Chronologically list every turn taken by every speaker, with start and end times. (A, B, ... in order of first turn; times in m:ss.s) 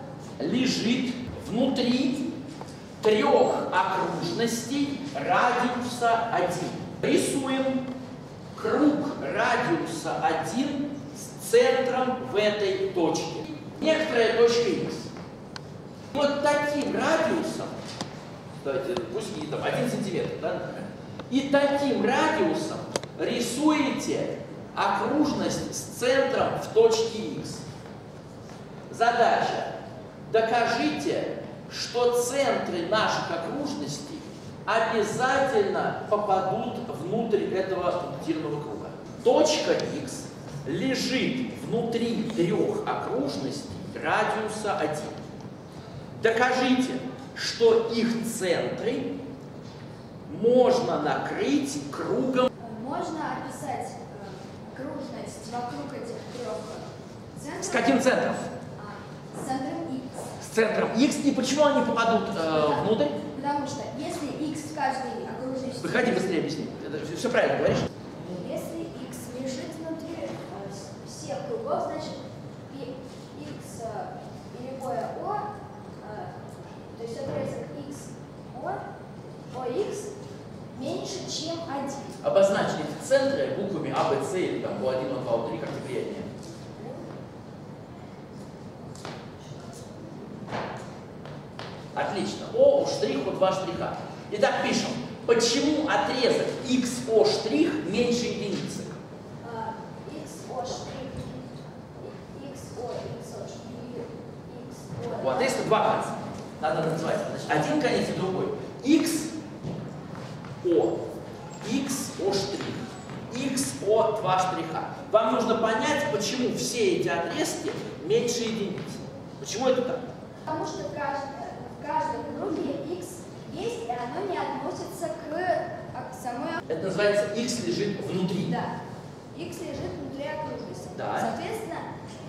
0:00.4-0:02.3 A
0:03.0-0:07.9 A
0:08.5-0:15.1 A
0:16.1-0:17.8 A
0:18.6-0:27.6 A
0:28.9-0:29.7 A
0:30.3-0:45.2 A
0:46.2-0:49.2 A
0:50.3-0:52.5 A
0:52.6-0:58.0 B
0:57.6-0:58.5 A
0:58.8-1:00.3 B
1:00.4-1:03.2 A
1:02.7-1:06.3 B
1:05.8-1:07.9 A
1:08.2-1:15.4 B
1:16.0-1:16.4 B
1:16.9-1:18.8 B
1:19.5-1:20.1 B
1:20.7-1:22.2 B
1:22.2-1:26.3 A
1:31.9-1:39.0 A
1:39.4-1:45.7 B
1:45.1-1:49.3 A
1:50.6-1:51.0 A
1:51.6-2:00.0 A
2:00.4-2:06.6 B
2:06.7-2:08.5 A
2:08.4-2:08.8 B
2:09.3-2:11.9 B
2:11.0-2:11.3 A